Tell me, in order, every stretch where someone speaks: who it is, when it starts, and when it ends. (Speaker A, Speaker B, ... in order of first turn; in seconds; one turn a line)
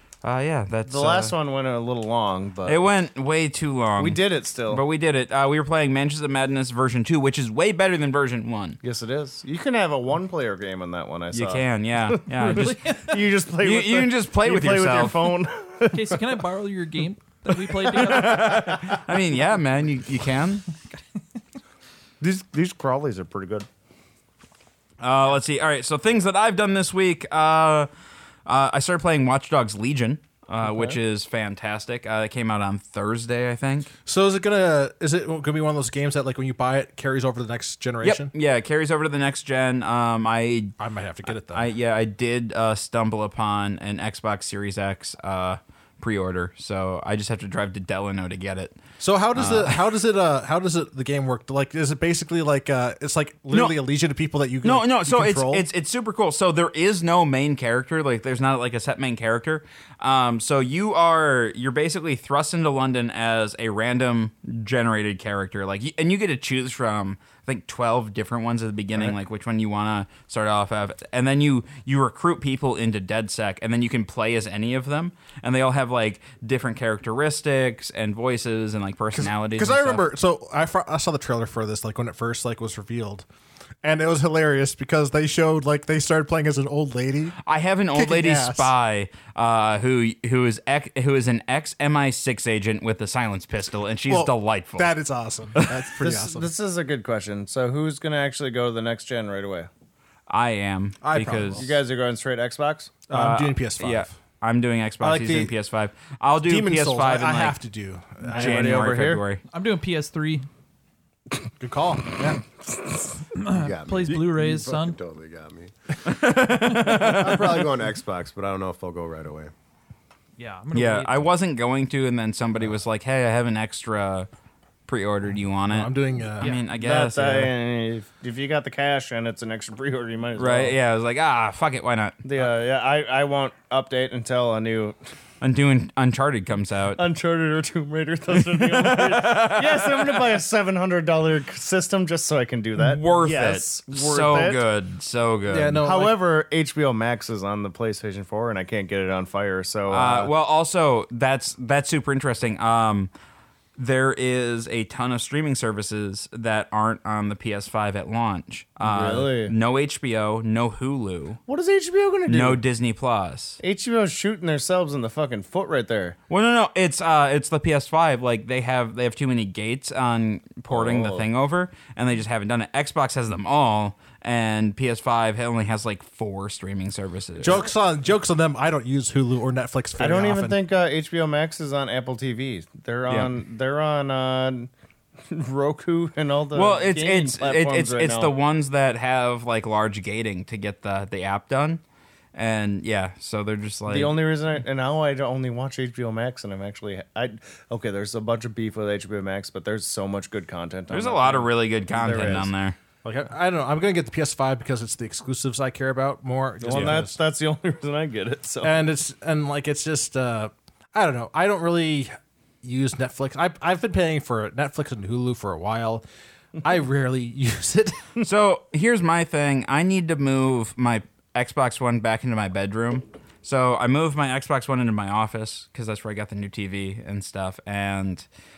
Speaker A: 0.2-1.3
Speaker B: 0.9-2.9
Speaker A: 2.7-8.8
Speaker B: 4.0-4.8
Speaker B: 8.8-16.2
Speaker A: 11.3-15.4
Speaker C: 12.4-13.1
Speaker C: 15.9-18.8
Speaker A: 17.9-20.6
Speaker B: 18.1-19.0
Speaker B: 22.2-23.7
Speaker A: 25.0-27.9
Speaker A: 28.5-33.9
Speaker D: 34.1-38.3
Speaker A: 38.0-40.8
Speaker D: 40.8-41.7
Speaker A: 41.3-48.8
Speaker D: 49.0-55.7
Speaker A: 49.3-49.8
Speaker A: 53.5-53.8
Speaker A: 54.6-80.0
Speaker D: 79.1-83.3
Speaker D: 83.8-87.4
Speaker A: 87.4-94.9
Speaker D: 87.9-88.7
Speaker D: 94.1-96.5
Speaker B: 96.0-99.7
Speaker A: 100.3-101.7
Speaker D: 101.0-101.7
Speaker B: 101.6-103.0
Speaker D: 103.1-104.2
Speaker A: 103.1-107.6
Speaker D: 105.0-105.5
Speaker D: 106.4-108.9
Speaker A: 108.3-109.4
Speaker B: 108.3-109.2
Speaker C: 109.5-110.5
Speaker D: 111.6-112.4
Speaker C: 113.3-115.0
Speaker E: 113.5-119.5
Speaker A: 116.0-117.7
Speaker C: 120.4-121.3
Speaker A: 120.7-124.3
Speaker A: 124.9-127.5
Speaker D: 125.7-126.5
Speaker B: 126.7-130.8
Speaker A: 130.4-132.2
Speaker B: 132.2-135.0
Speaker A: 135.4-137.0
Speaker B: 137.0-144.7
Speaker A: 138.5-140.2
Speaker A: 142.8-145.9
Speaker D: 145.5-146.2
Speaker B: 145.8-150.3
Speaker A: 149.9-153.1
Speaker A: 153.8-161.4
Speaker B: 158.8-159.5
Speaker B: 161.5-162.6
Speaker A: 162.3-163.6
Speaker B: 163.6-166.2
Speaker A: 166.3-177.7
Speaker B: 170.7-171.3
Speaker D: 177.4-180.6
Speaker B: 180.0-184.7
Speaker A: 183.1-183.3
Speaker B: 185.3-188.3
Speaker A: 186.5-191.8
Speaker A: 192.3-194.2
Speaker B: 193.9-202.5
Speaker A: 200.9-202.8
Speaker D: 203.0-207.2
Speaker B: 206.6-208.8
Speaker A: 206.7-207.0
Speaker D: 208.6-216.0
Speaker D: 216.6-218.1
Speaker A: 218.2-228.3